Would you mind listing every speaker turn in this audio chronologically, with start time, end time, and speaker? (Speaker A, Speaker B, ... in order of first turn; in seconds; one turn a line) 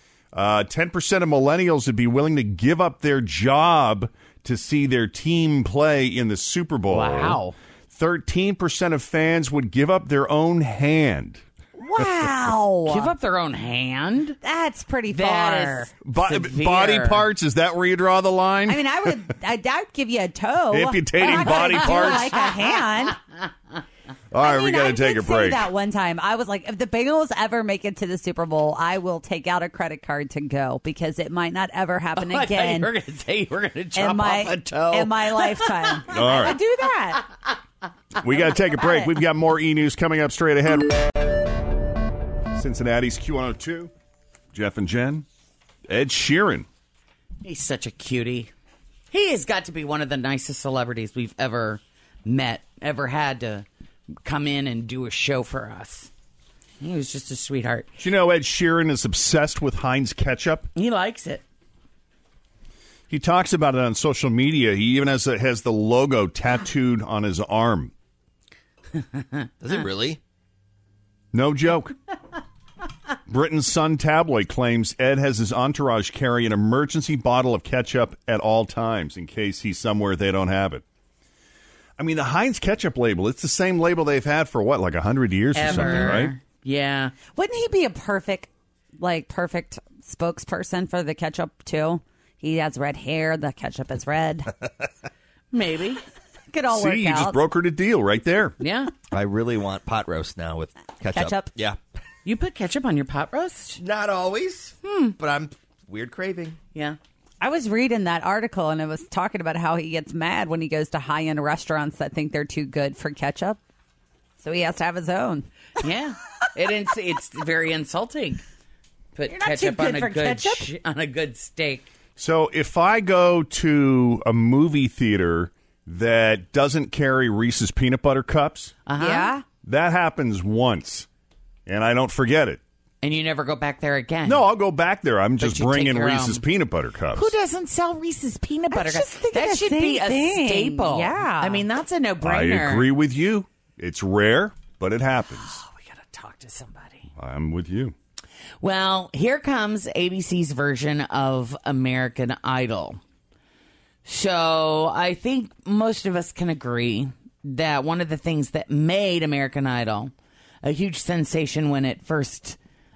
Speaker A: 0.3-7.4
Speaker B: 6.9-7.5
Speaker A: 7.9-11.4
Speaker C: 11.8-13.1
Speaker B: 12.8-14.4
Speaker C: 14.4-15.9
Speaker B: 15.1-17.3
Speaker A: 16.0-18.8
Speaker C: 18.7-23.2
Speaker A: 20.7-22.4
Speaker B: 21.6-23.0
Speaker A: 24.3-25.7
Speaker C: 24.4-32.9
Speaker B: 32.1-36.6
Speaker C: 34.0-37.2
Speaker A: 36.1-36.6
Speaker A: 38.2-41.0
Speaker C: 38.5-39.1
Speaker A: 42.6-43.9
Speaker A: 44.5-45.2
Speaker A: 45.9-46.7
Speaker B: 47.4-48.5
Speaker B: 49.1-53.7
Speaker B: 54.2-56.1
Speaker B: 56.8-57.9
Speaker A: 58.0-60.7
Speaker B: 60.7-61.4
Speaker A: 63.1-67.9
Speaker D: 69.6-70.2
Speaker A: 71.3-72.0
Speaker A: 73.3-80.8
Speaker A: 82.0-86.3
Speaker B: 85.5-87.1
Speaker C: 87.4-88.5
Speaker C: 89.0-94.5
Speaker B: 95.5-96.0
Speaker C: 96.5-97.4
Speaker A: 96.7-98.6
Speaker B: 98.6-98.9
Speaker D: 99.1-101.8
Speaker C: 101.2-101.5
Speaker B: 102.2-103.8
Speaker D: 103.8-106.6
Speaker B: 104.8-105.1
Speaker C: 107.4-113.6
Speaker C: 114.4-115.5
Speaker B: 115.8-118.4
Speaker B: 119.2-121.9
Speaker C: 119.3-120.6
Speaker A: 122.2-128.7
Speaker B: 128.9-129.3
Speaker C: 129.0-129.4
Speaker A: 129.7-131.1
Speaker A: 131.7-132.6
Speaker B: 133.0-134.5
Speaker A: 134.2-137.3
Speaker B: 135.4-136.5
Speaker B: 137.1-142.9
Speaker C: 138.7-141.6
Speaker A: 142.2-145.6
Speaker B: 145.3-147.1
Speaker A: 147.2-147.9
Speaker B: 148.6-153.0
Speaker B: 154.1-162.6